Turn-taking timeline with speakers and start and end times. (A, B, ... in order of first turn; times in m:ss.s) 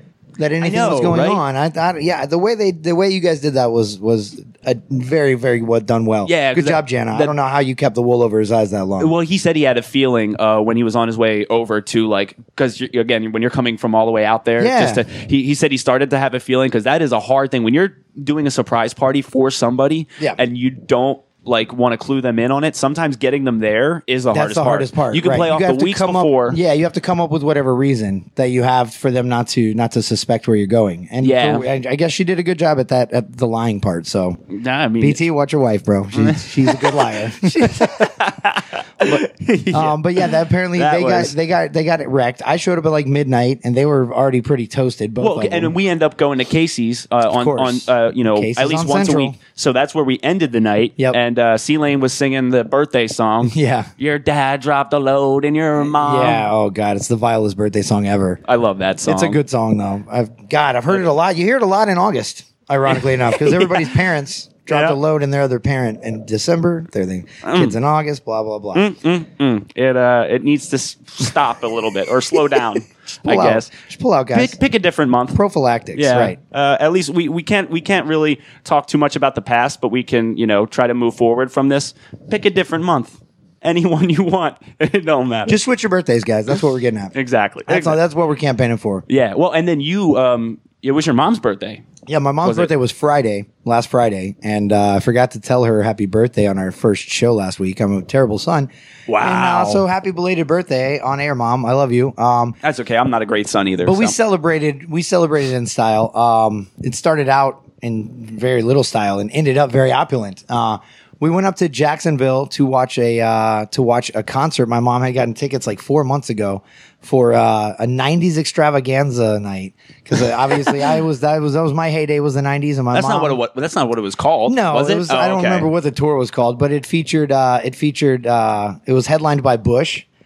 0:00.4-0:09.1 A
0:00.6-0:01.4 B
0:06.2-0:07.3 B
0:09.0-0:26.6 B
0:14.6-0:15.0 A
0:24.3-0:34.4 A
0:31.2-0:31.6 B
0:34.5-0:35.2 B
0:35.0-0:38.0 A
0:36.1-0:41.3 B
0:39.7-0:45.7 A
0:45.2-0:56.5 B
0:47.3-0:49.4 A
0:53.4-0:53.9 A
0:55.9-0:58.4 A
0:58.4-0:59.4 B
0:59.0-1:08.8 A
1:02.9-1:03.9 B
1:04.7-1:05.0 B
1:07.4-1:07.8 B
1:08.7-1:13.7 B
1:13.2-1:14.6 A
1:14.3-1:15.4 B
1:15.3-1:16.4 A
1:15.9-1:25.6 B
1:25.5-1:27.1 A
1:27.1-1:28.0 B
1:27.7-1:29.0 A
1:29.1-1:31.8 B
1:32.0-1:42.6 A
1:32.4-1:32.7 B
1:39.1-1:39.8 B
1:42.6-1:44.2 B
1:43.8-2:03.4 A
2:02.9-2:05.7 B
2:04.5-2:10.0 A